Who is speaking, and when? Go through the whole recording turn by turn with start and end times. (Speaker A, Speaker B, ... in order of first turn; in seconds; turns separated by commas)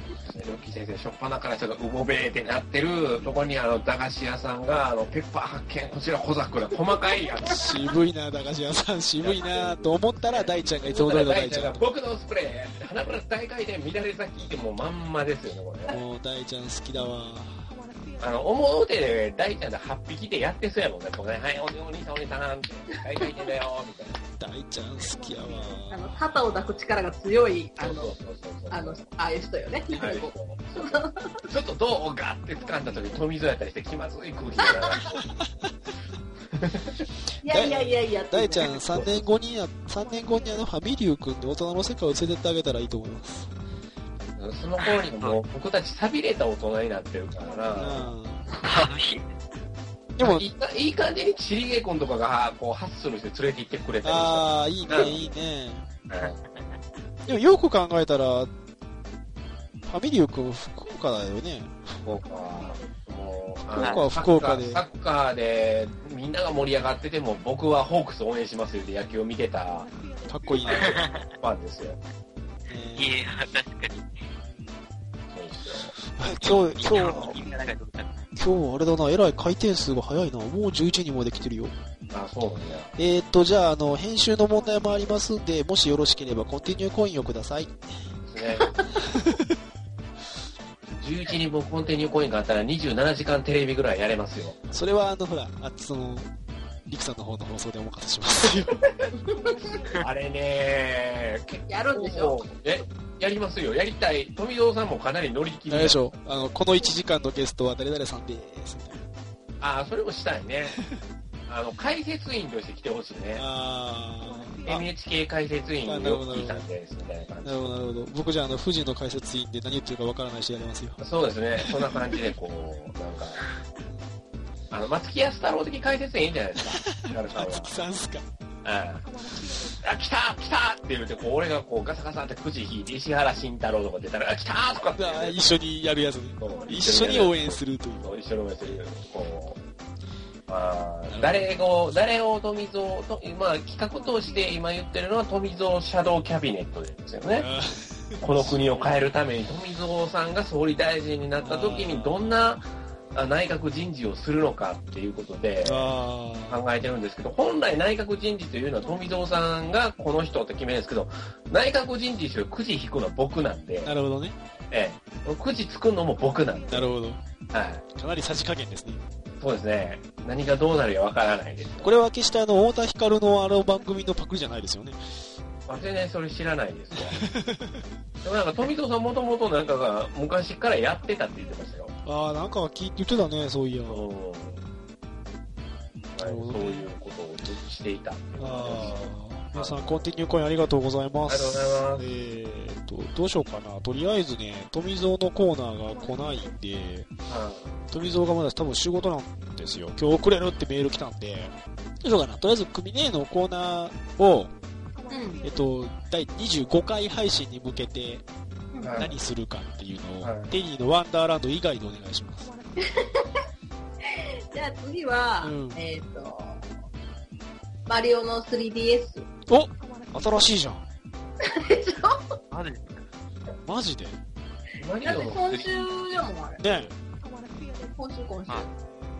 Speaker A: 0.2-7.7, Speaker B: 7.4-11.8, Speaker A: 9.2-15.9, Speaker B: 15.9-17.7, Speaker A: 18.2-24.2, Speaker B: 24.4-26.3, Speaker C: 25.9-28.1, Speaker A: 27.8-29.0, Speaker C: 28.7-31.4, Speaker A: 29.9-35.2, Speaker C: 34.6-35.1, Speaker A: 36.5-37.0, Speaker C: 37.4-38.7, Speaker B: 37.5-43.5, Speaker A: 38.9-39.3, Speaker A: 44.4-48.1, Speaker D: 44.8-45.4, Speaker B: 47.8-48.4, Speaker D: 48.5-49.3, Speaker B: 50.1-50.5, Speaker A: 50.2-55.2, Speaker B: 54.0-55.9, Speaker A: 56.1-56.4, Speaker D: 56.5-56.8, Speaker B: 57.2-58.5, Speaker B: 59.9-62.0, Speaker A: 62.0-69.9, Speaker B: 63.7-64.8, Speaker B: 70.3-71.0, Speaker A: 70.6-72.0, Speaker D: 70.7-71.3, Speaker B: 72.7-73.2, Speaker D: 73.0-74.1, Speaker A: 75.3-75.9, Speaker B: 76.0-77.4, Speaker D: 76.4-78.3, Speaker B: 78.3-81.7, Speaker A: 82.1-82.9, Speaker B: 83.0-87.7, Speaker A: 88.2-88.7, Speaker A: 90.9-94.6, Speaker B: 94.7-96.3, Speaker B: 96.9-98.8, Speaker C: 99.2-99.8, Speaker A: 100.0-106.5, Speaker C: 101.7-102.4, Speaker B: 105.7-109.0, Speaker A: 109.6-110.8, Speaker A: 111.5-113.4, Speaker B: 113.3-114.8, Speaker A: 114.6-117.7, Speaker B: 115.8-116.7, Speaker B: 117.4-121.0, Speaker A: 121.0-123.4, Speaker B: 121.6-122.0, Speaker A: 124.7-127.7, Speaker B: 126.8-128.2, Speaker A: 128.6-129.1, Speaker A: 129.6-135.4, Speaker B: 134.9-138.1, Speaker A: 136.4-139.6, Speaker A: 140.5-147.5, Speaker B: 141.1-141.5, Speaker B: 147.3-148.9, Speaker A: 148.2-155.9, Speaker B: 151.4-152.6, Speaker B: 155.6-156.6, Speaker A: 156.5-163.9, Speaker B: 163.8-164.3, Speaker A: 164.7-166.9, Speaker B: 166.7-167.2, Speaker A: 167.5-167.8, Speaker B: 167.9-169.0, Speaker A: 169.4-171.9, Speaker B: 171.8-175.0, Speaker A: 175.7-177.2, Speaker B: 176.9-177.8, Speaker A: 178.2-181.9, Speaker B: 182.0-184.1, Speaker A: 183.9-184.6, Speaker A: 186.1-190.0, Speaker B: 186.2-186.9, Speaker B: 188.4-197.1, Speaker A: 191.2-192.1, Speaker A: 197.3-197.7, Speaker B: 197.9-204.5, Speaker C: 205.1-205.4, Speaker B: 205.4-208.2, Speaker C: 208.7-209.0, Speaker A: 208.8-209.2, Speaker B: 209.0-212.5, Speaker A: 210.2-210.5, Speaker C: 212.8-213.3, Speaker C: 214.0-216.6, Speaker B: 215.4-215.8, Speaker C: 217.9-219.3, Speaker B: 219.5-220.8, Speaker C: 221.4-222.2, Speaker D: 222.5-223.0, Speaker B: 223.7-224.2, Speaker A: 224.8-225.9, Speaker C: 225.0-226.6, Speaker B: 226.6-226.9, Speaker C: 228.0-228.7